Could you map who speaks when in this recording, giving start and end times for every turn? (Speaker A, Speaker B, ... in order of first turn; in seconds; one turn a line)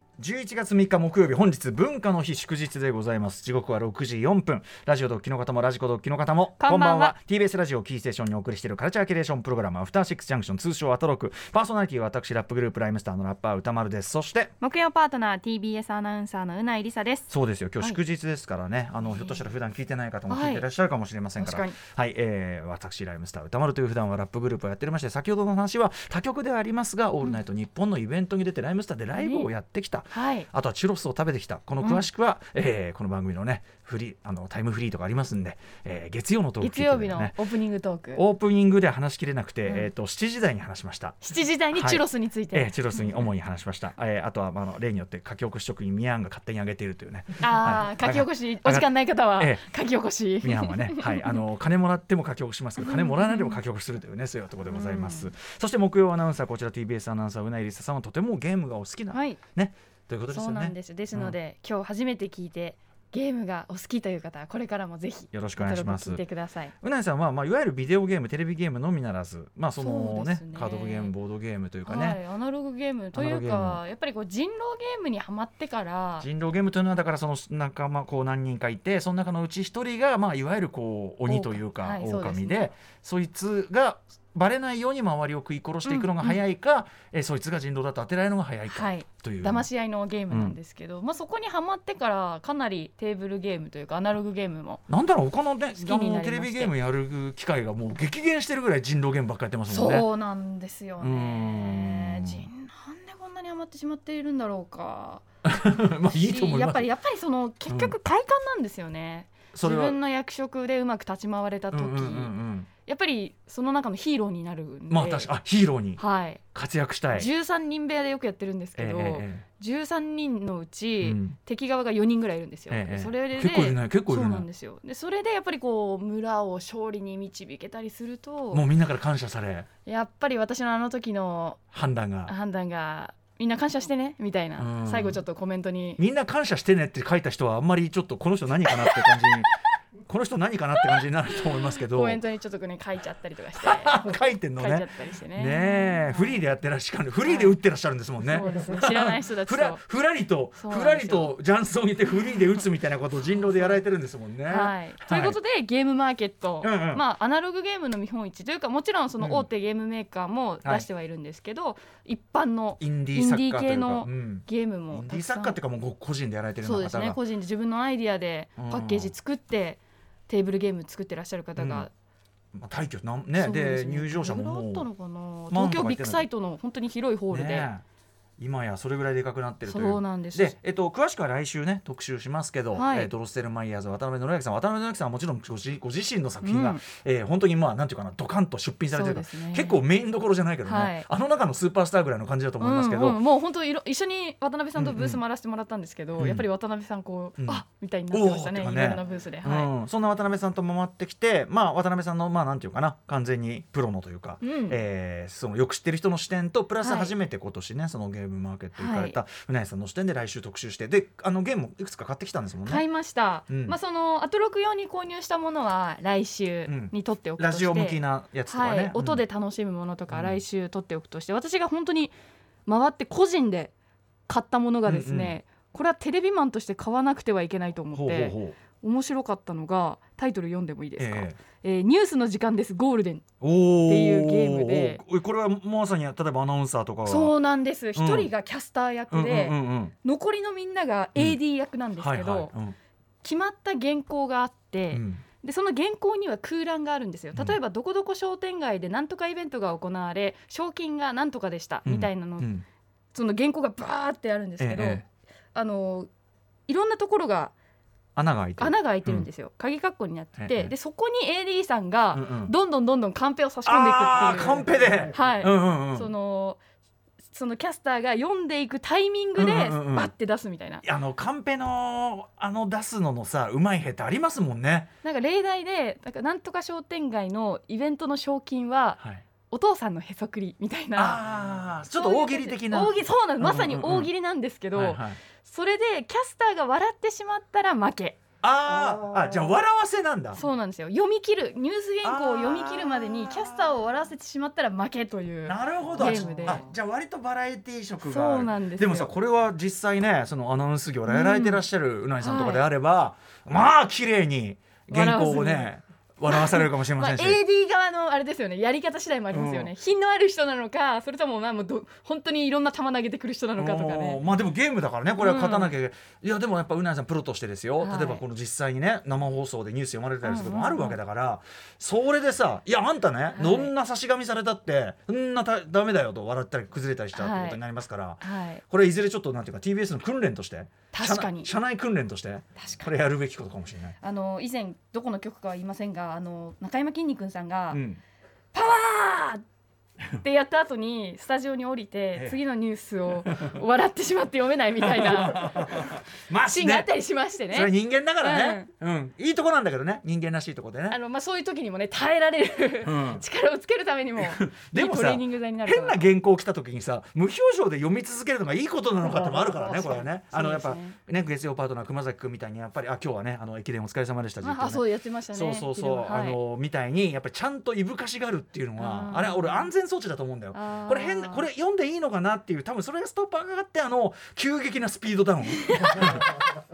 Speaker A: 0.2-14.5
Speaker B: 6.6-7.2
Speaker B: 14.6-18.0
Speaker A: 17.3-37.4
Speaker B: 20.3-20.6
Speaker B: 21.4-21.8
Speaker B: 29.2-29.5
Speaker B: 30.1-30.5
Speaker B: 36.6-38.2
Speaker A: 38.1-49.6
Speaker B: 41.2-43.2
Speaker B: 47.4-51.4
Speaker A: 50.4-61.4
Speaker B: 52.8-53.6
Speaker B: 54.7-55.3
Speaker B: 59.1-59.4
Speaker B: 60.3-66.7
Speaker A: 65.3-66.2
Speaker A: 66.8-72.2
Speaker B: 69.8-71.1
Speaker B: 71.9-76.3
Speaker A: 73.1-73.8
Speaker A: 76.2-89.7
Speaker B: 81.3-82.7
Speaker B: 85.9-86.4
Speaker B: 88.7-94.8
Speaker A: 90.3-90.6
Speaker A: 94.9-100.1
Speaker B: 95.8-96.7
Speaker B: 99.7-105.2
Speaker A: 101.0-102.5
Speaker A: 105.4-106.8
Speaker B: 106.1-112.3
Speaker A: 107.7-107.9
Speaker A: 109.5-110.0
Speaker A: 111.7-112.7
Speaker B: 112.8-115.3
Speaker A: 114.9-116.0
Speaker B: 116.0-116.4
Speaker A: 116.5-117.3
Speaker B: 117.1-128.7
Speaker A: 118.8-119.5
Speaker A: 121.0-121.4
Speaker A: 122.7-124.5
Speaker A: 128.5-129.7
Speaker B: 129.9-131.6
Speaker A: 131.7-132.3
Speaker B: 132.3-136.0
Speaker A: 134.6-135.2
Speaker A: 136.0-139.5
Speaker B: 138.8-139.5
Speaker A: 140.1-142.2
Speaker B: 141.6-144.1
Speaker A: 143.6-155.4
Speaker B: 144.6-146.4
Speaker B: 147.2-147.6
Speaker B: 148.2-149.8
Speaker B: 150.6-151.3
Speaker B: 154.5-165.6
Speaker A: 156.6-157.0
Speaker A: 159.2-159.5
Speaker A: 162.8-167.2
Speaker B: 166.6-171.9
Speaker A: 168.6-169.1
Speaker A: 171.6-171.9
Speaker A: 172.5-174.9
Speaker B: 173.4-177.7
Speaker A: 175.5-176.3
Speaker A: 177.3-177.8
Speaker A: 178.4-193.2
Speaker B: 179.7-180.5
Speaker B: 182.7-183.1
Speaker B: 186.4-186.8
Speaker B: 188.9-189.8
Speaker B: 190.7-191.1
Speaker B: 192.6-199.7
Speaker A: 194.8-195.2
Speaker A: 196.2-196.4
Speaker A: 197.4-212.8
Speaker B: 204.4-204.8
Speaker B: 206.8-207.1
Speaker B: 208.8-209.2
Speaker B: 212.7-222.1
Speaker A: 213.5-213.8
Speaker A: 216.7-219.2
Speaker A: 220.1-220.4
Speaker B: 222.7-223.7
Speaker B: 224.3-233.3
Speaker A: 224.9-225.4
Speaker A: 227.9-228.6
Speaker A: 231.0-231.4
Speaker A: 233.4-237.3
Speaker B: 233.9-235.0
Speaker B: 237.1-242.5
Speaker A: 237.9-238.3
Speaker A: 239.1-239.9
Speaker A: 242.0-242.8
Speaker B: 243.2-252.5
Speaker A: 244.9-245.2
Speaker A: 251.8-252.7
Speaker B: 253.1-256.1
Speaker A: 254.6-255.1
Speaker B: 256.7-257.5
Speaker A: 258.2-259.3
Speaker B: 258.6-266.6
Speaker A: 260.4-260.7
Speaker A: 262.1-262.5
Speaker A: 263.7-266.1
Speaker B: 267.3-270.8
Speaker A: 269.4-270.1
Speaker A: 270.8-274.9
Speaker B: 275.0-281.2
Speaker A: 281.0-284.1
Speaker B: 281.9-288.2
Speaker A: 284.7-285.2
Speaker A: 288.4-290.4
Speaker B: 290.4-296.7
Speaker A: 292.0-293.8
Speaker A: 295.5-307.4
Speaker B: 298.0-299.1
Speaker B: 301.1-301.6
Speaker B: 302.2-302.6
Speaker B: 304.9-305.7
Speaker B: 306.3-314.2
Speaker A: 309.3-309.7
Speaker A: 313.6-334.0
Speaker B: 315.2-315.7
Speaker B: 317.8-318.2
Speaker B: 320.2-321.0
Speaker B: 323.4-323.7
Speaker B: 327.1-327.6
Speaker B: 328.2-328.6
Speaker B: 330.9-331.5
Speaker B: 332.6-332.9
Speaker B: 334.0-337.8
Speaker A: 337.7-338.0
Speaker B: 338.5-339.4
Speaker B: 340.2-348.7
Speaker A: 343.3-343.6
Speaker A: 344.8-346.9
Speaker A: 347.5-351.0
Speaker B: 350.9-356.1
Speaker A: 352.8-353.2
Speaker A: 354.2-376.3
Speaker B: 359.1-361.0
Speaker B: 364.4-366.4
Speaker B: 368.8-369.7
Speaker B: 370.5-371.5
Speaker B: 375.6-376.2